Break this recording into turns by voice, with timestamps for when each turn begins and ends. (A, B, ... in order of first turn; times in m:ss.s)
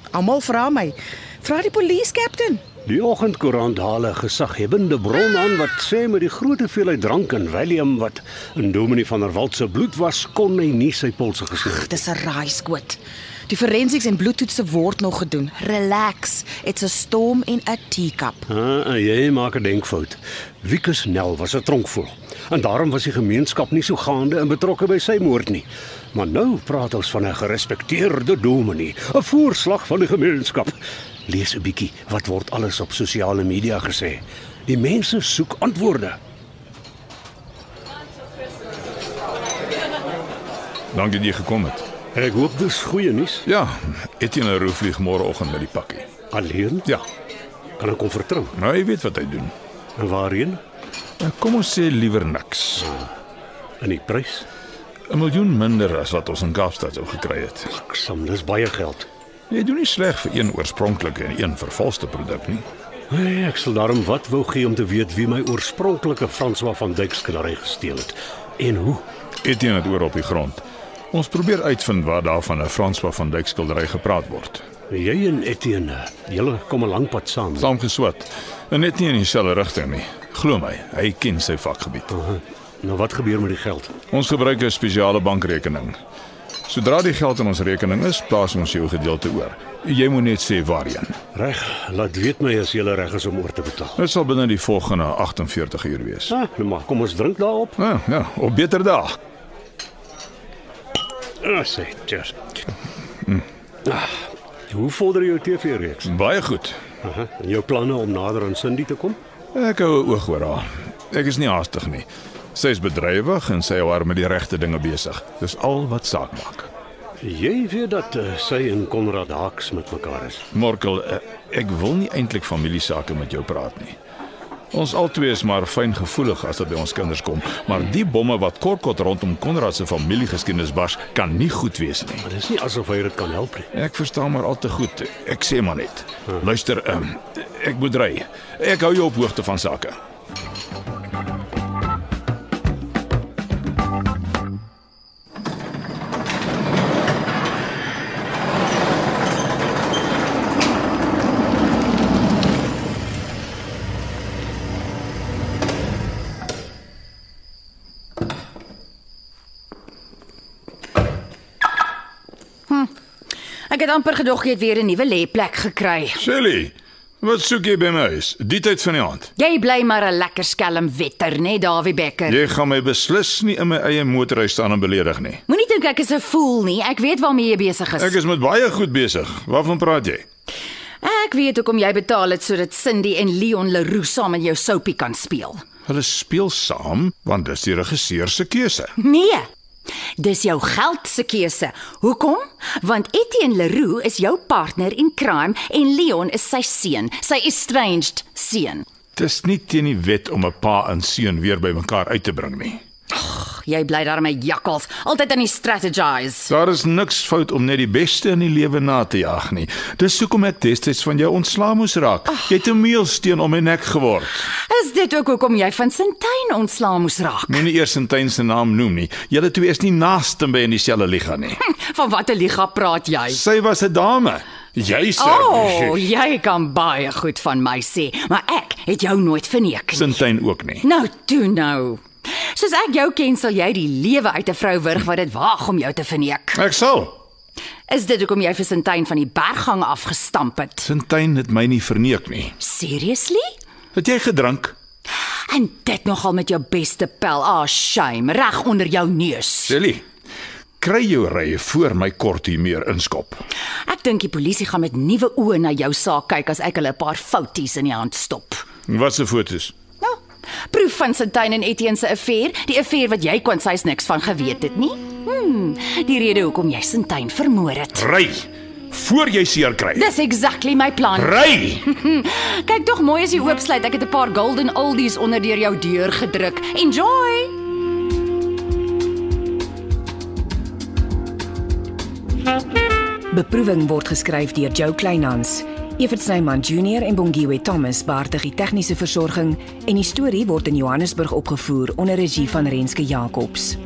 0:00.1-0:02.6 A
0:02.8-0:12.0 B
0:11.7-0:18.5 A
0:18.5-0:36.2 B
0:40.9-0:41.8 C
0:42.1-0:43.4 B
0:43.4-0:46.1 C
0:46.3-0:46.9 B
0:47.8-0:48.5 B
0:48.5-0:49.5 C
0:50.0-0:50.6 B
0:51.2-0:52.9 C
0:53.8-0:54.4 B
0:55.1-0:57.7 C
0:57.7-0:59.1 B
0:59.5-1:02.6 C
1:03.1-1:09.0 B
1:09.4-1:14.6 C
1:14.9-1:17.7 B
1:17.6-1:22.1 C
1:22.1-1:23.9 B
1:24.1-1:26.0 C
1:26.7-1:31.2 C
1:31.3-1:34.0 B
1:34.0-1:36.3 C
1:36.3-1:37.8 B
1:37.8-1:39.2 C
1:41.4-1:42.5 B
1:43.8-1:46.1 B
1:46.0-1:46.8 C
1:47.0-1:49.2 B
1:49.5-1:56.7 C
1:57.2-2:00.4 B
2:00.5-2:04.0 C
2:04.7-2:12.3 C
2:12.2-2:13.7 B
2:13.7-2:20.0 C
2:43.7-2:46.2 D
2:46.2-2:49.3 C
2:49.4-2:52.4 D
2:52.3-2:55.4 C
2:55.5-2:58.1 D
2:58.0-3:00.2 C
3:01.0-3:05.6 D
3:05.9-3:08.9 C
3:09.0-3:09.4 D
3:10.2-3:18.8 D
3:19.2-3:22.8 C
3:23.1-3:26.5 D
3:26.5-3:34.5 C
3:34.5-3:37.6 D
3:37.5-3:41.6 C
3:41.6-3:43.4 D
3:43.3-3:46.0 C
3:45.2-3:50.2 D
3:49.9-3:50.8 C
3:50.8-3:56.6 D
3:56.5-3:57.2 C
3:57.9-4:00.9 D
4:00.8-4:02.6 C
4:02.6-4:03.4 D
4:03.9-4:04.7 C
4:05.5-4:09.7 D
4:09.7-4:10.0 C
4:10.8-4:13.4 C
4:13.8-4:18.6 D
4:18.9-4:19.7 C
4:20.0-4:28.1 D
4:27.9-4:30.1 C
4:29.9-4:37.6 D
4:31.1-4:31.8 C
4:43.3-4:53.8 E